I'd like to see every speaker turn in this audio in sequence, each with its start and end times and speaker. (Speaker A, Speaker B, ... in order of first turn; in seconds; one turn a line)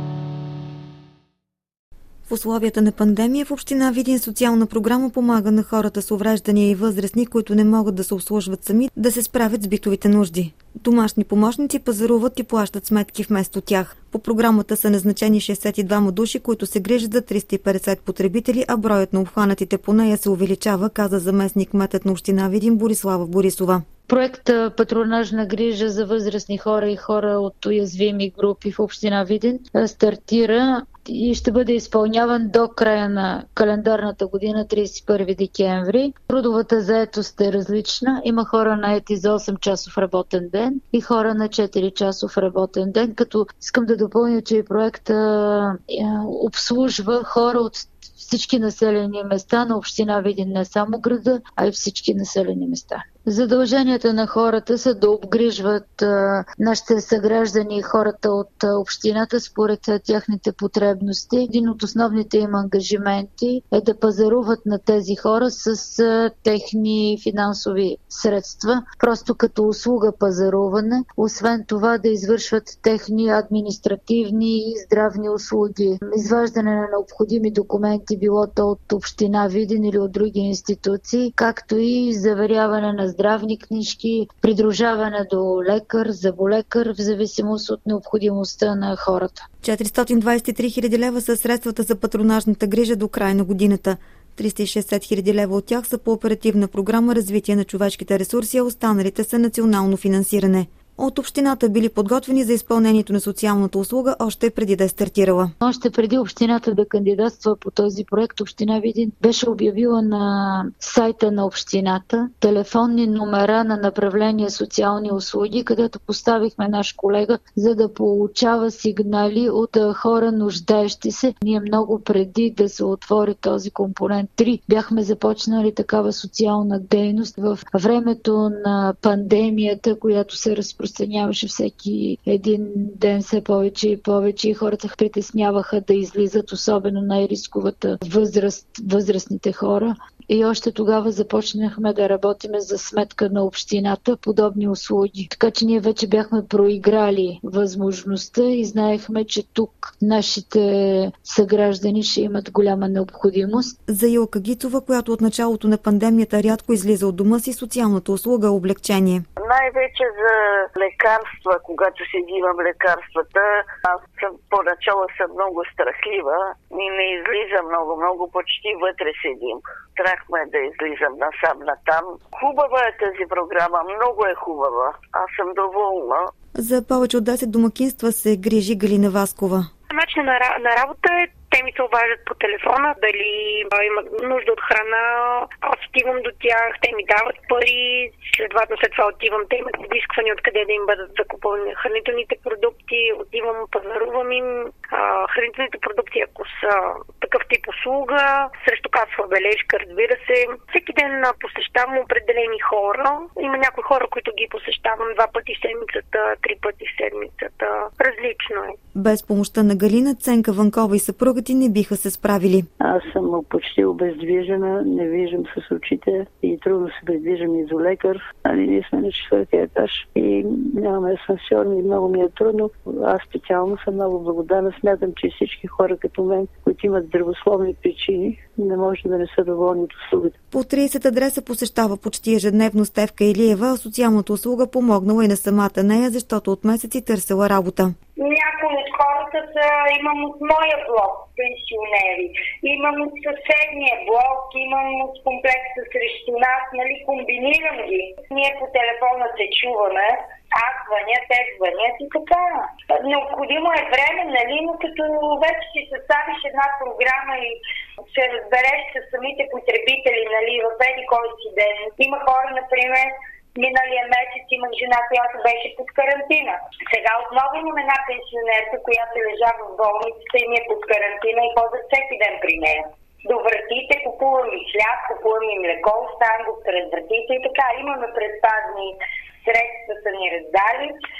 Speaker A: 2.3-23.9
Speaker B: 24.1-89.5
Speaker A: 89.6-105.5
Speaker B: 105.6-153.8
Speaker A: 153.9-159.2
Speaker C: 159.4-176.3
Speaker A: 176.6-179.7
Speaker D: 179.9-208.8
Speaker A: 209.0-212.7
Speaker E: 212.8-230.3
Speaker A: 230.5-237.9
Speaker F: 238.2-257.6
Speaker F: 258.1-280.9